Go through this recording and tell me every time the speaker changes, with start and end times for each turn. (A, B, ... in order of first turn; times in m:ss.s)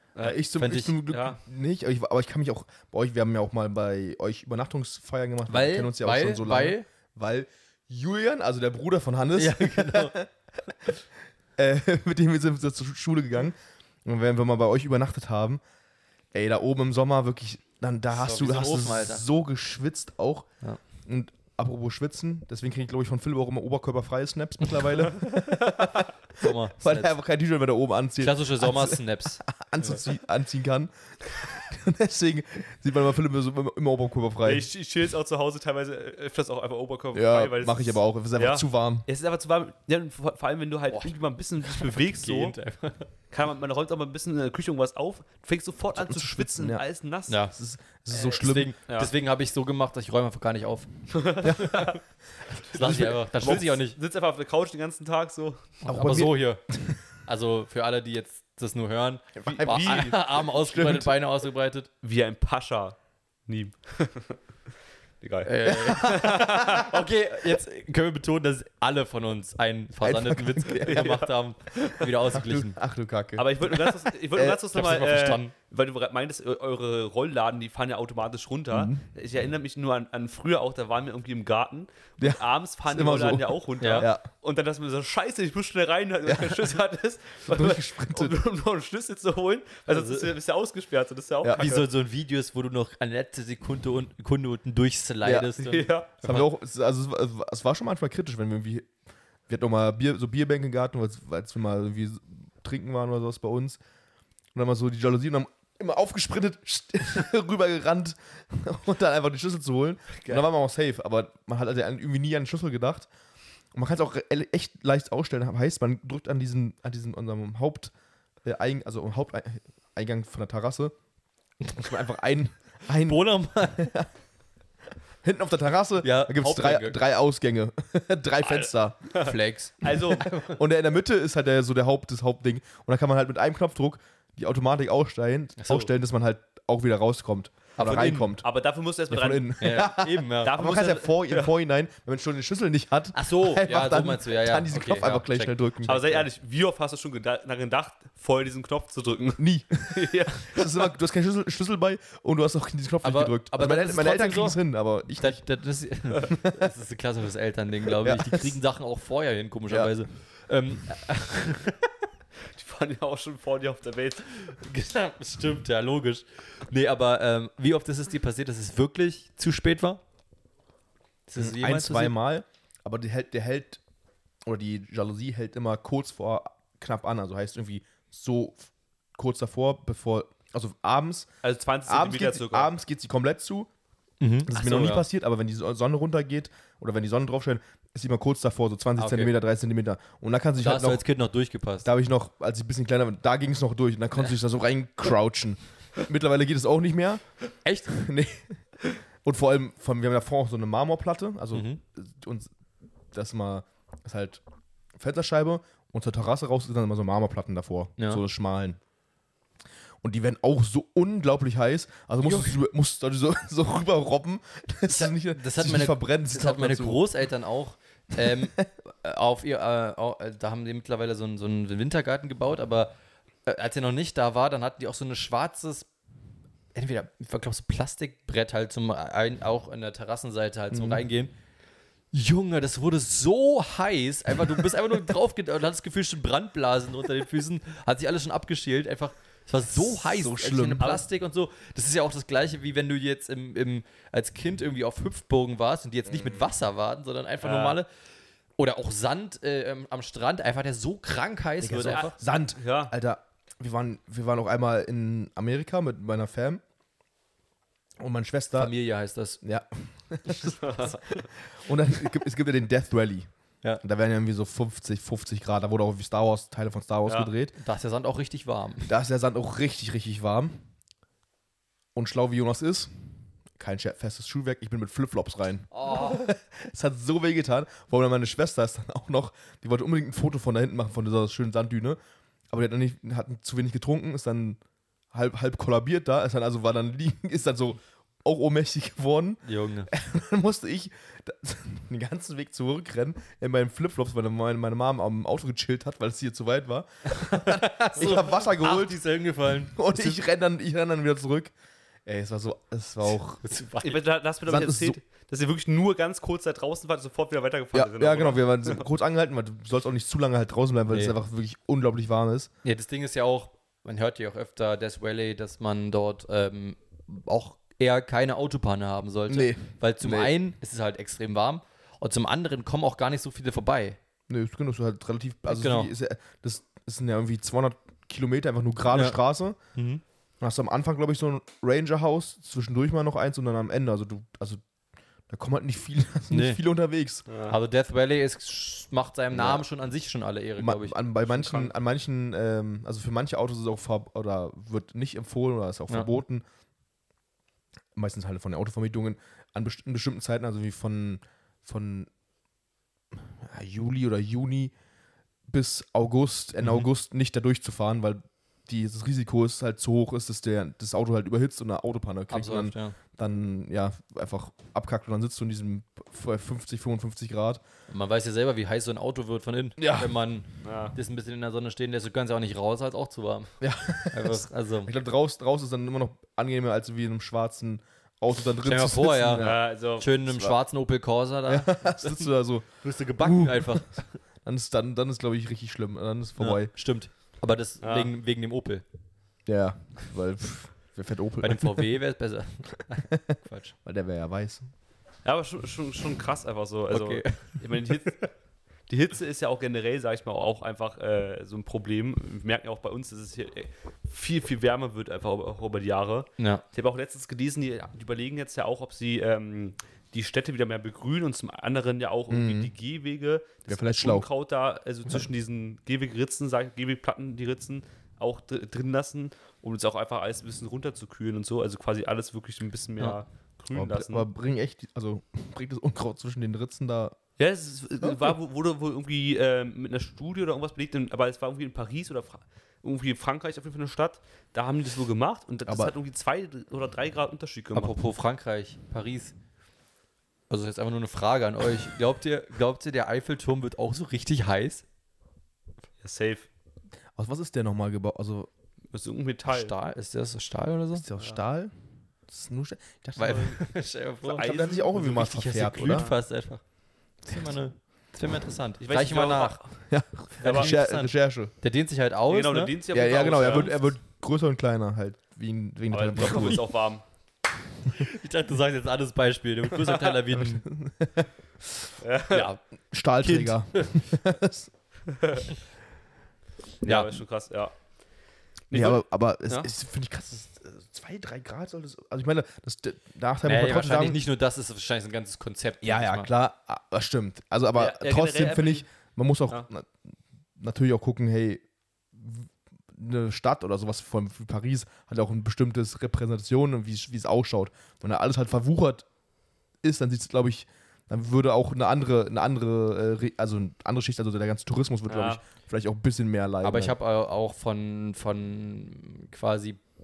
0:00.2-0:10.3 A
0:00.4-0:01.0 B
0:01.1-0:01.4 C
0:05.5-0:06.8 B
0:09.4-0:10.2 B
0:11.6-0:15.6 A
0:16.3-0:34.6 A
0:18.1-0:19.2 B
0:26.4-0:27.1 B
0:28.2-0:29.5 B
0:34.4-0:42.6 C
0:37.1-0:39.0 A
0:40.9-0:43.1 B
0:43.3-0:47.4 C
0:45.9-0:46.8 A
0:47.3-0:47.5 B
0:47.5-0:48.7 A
0:48.1-0:51.8 B
0:51.1-0:52.0 C
0:51.4-0:51.9 A
0:52.6-0:54.0 B
0:52.7-0:53.1 A
0:53.4-0:55.7 C
0:55.8-0:56.6 B
0:55.8-0:57.0 A
0:57.2-1:01.9 B
0:59.4-1:01.1 A
0:59.4-1:00.2 C
1:02.0-1:04.4 C
1:05.2-1:06.9 C
1:05.4-1:12.8 B
1:05.6-1:06.6 A
1:10.0-1:11.2 A
1:10.8-1:11.3 C
1:12.3-1:14.6 A
1:13.4-1:31.9 C
1:14.7-1:15.5 B
1:18.7-1:19.0 A
1:22.2-1:24.2 A
1:23.8-1:24.1 B
1:26.3-1:26.6 A
1:27.5-1:28.4 A
1:29.9-1:30.3 B
1:31.4-1:31.8 A
1:31.6-1:36.4 B
1:35.2-1:35.5 A
1:35.6-1:36.1 C
1:36.2-1:38.9 A
1:39.5-1:43.8 A
1:44.5-1:53.1 A
1:50.1-1:50.4 C
1:53.7-1:57.9 A
1:58.4-2:01.0 A
2:01.7-2:04.1 A
2:03.0-2:03.9 B
2:05.2-2:09.1 A
2:06.0-2:07.0 B
2:09.1-2:10.3 C
2:09.2-2:10.6 B
2:10.2-2:18.4 A
2:15.6-2:15.9 B
2:17.8-2:18.3 B
2:18.4-2:19.9 C
2:19.1-2:26.2 A
2:19.6-2:20.5 B
2:20.4-2:21.5 C
2:23.1-2:25.5 B
2:25.8-2:30.9 C
2:29.4-2:35.4 A
2:33.0-2:34.6 B
2:35.2-2:41.9 B
2:36.3-2:36.6 A
2:38.0-2:38.5 A
2:42.5-2:44.4 C
2:44.4-2:50.0 B
2:51.3-2:52.1 B
2:51.4-2:53.8 A
2:54.4-3:01.3 A
3:01.4-3:02.7 C
3:01.9-3:03.7 A
3:04.2-3:05.0 B
3:04.4-3:11.0 A
3:09.0-3:09.3 B
3:10.6-3:11.9 B
3:11.8-3:17.3 A
3:17.6-3:18.0 B
3:17.9-3:18.6 A
3:19.2-3:22.5 A
3:21.5-3:21.8 B
3:23.1-3:24.4 A
3:25.0-3:28.8 A
3:30.0-3:37.0 A
3:32.2-3:32.6 B
3:34.9-3:42.9 B
3:38.2-3:38.5 A
3:43.4-3:45.9 B
3:46.7-3:51.3 B
3:50.7-3:51.0 A
3:52.1-4:07.9 B
4:00.0-4:01.0 A
4:06.1-4:06.5 A
4:07.4-4:07.8 C
4:08.6-4:12.1 B
4:11.6-4:16.6 A
4:11.8-4:12.9 C
4:18.0-4:18.7 A
4:18.5-4:19.4 B
4:19.4-4:23.3 A
4:20.6-4:20.9 C
4:23.8-4:27.5 A
4:27.1-4:27.3 C
4:27.6-4:28.9 B
4:28.9-4:30.7 A
4:31.9-4:42.0 A
4:35.7-4:36.2 B
4:42.5-4:44.6 A
4:45.1-4:59.0 A
4:49.4-4:49.9 B
4:57.1-5:00.2 B
4:59.7-5:01.5 A
5:02.0-5:03.4 A
5:03.4-5:04.0 B
5:03.8-5:08.8 C
5:04.4-5:05.0 A
5:07.7-5:12.5 A
5:10.9-5:11.2 B
5:12.6-5:24.0 B
5:19.3-5:20.3 A
5:24.3-5:29.6 A
5:25.5-5:25.9 B
5:28.9-5:29.2 B
5:29.7-5:30.0 B
5:30.4-5:34.6 A
5:35.3-5:37.3 A
5:36.3-5:36.6 B
5:37.3-5:37.5 C
5:37.5-5:41.7 B
5:39.3-5:39.6 A
5:40.6-5:46.4 A
5:47.9-5:52.1 A
5:53.1-5:54.7 A
5:55.5-6:07.6 A
6:02.3-6:03.0 B
6:07.9-6:14.9 B
6:09.8-6:10.1 A
6:10.6-6:10.9 C
6:13.6-6:19.6 A
6:18.6-6:22.2 B
6:19.4-6:20.5 C
6:21.5-6:26.7 A
6:22.8-6:24.1 B
6:26.4-6:28.8 B
6:27.8-6:28.1 C
6:29.4-6:31.9 A
6:31.4-6:33.7 B
6:33.8-6:34.7 A
6:35.2-6:38.3 C
6:36.9-6:37.6 B
6:38.9-7:04.3 C
6:46.4-6:46.6 B
6:52.3-6:52.7 A
6:53.7-6:54.3 A
7:03.7-7:07.2 A
7:07.4-7:18.0 C
7:15.7-7:15.9 A
7:17.7-7:19.3 B
7:20.5-7:24.8 B
7:26.0-7:26.5 C
7:27.2-7:28.5 A
7:28.9-7:29.7 C
7:29.5-7:31.0 B
7:31.0-7:31.7 A
7:32.3-7:33.7 A
7:33.2-7:34.5 B
7:34.2-7:36.2 C
7:34.4-7:36.1 A
7:35.1-7:36.6 B
7:37.2-7:39.6 B
7:38.8-7:39.7 C
7:39.9-7:41.5 A
7:40.4-7:40.7 C
7:40.4-7:43.8 B
7:42.3-7:43.8 C
7:42.9-7:46.6 A
7:45.9-7:47.0 C
7:47.9-7:50.7 B
7:49.8-7:50.1 C
7:50.3-7:51.3 A
7:52.0-7:52.5 C
7:52.3-7:52.6 B
7:52.9-7:54.7 A
7:53.2-7:54.0 B
7:55.1-7:55.4 C
7:56.8-7:57.7 C
7:56.8-7:57.1 B
7:58.7-7:59.7 C
7:58.7-8:04.2 A
8:03.4-8:06.3 B
8:05.8-8:10.0 A
8:07.8-8:08.8 C
8:10.6-8:19.0 A
8:19.8-8:26.9 A
8:25.1-8:25.4 C
8:26.6-8:29.8 B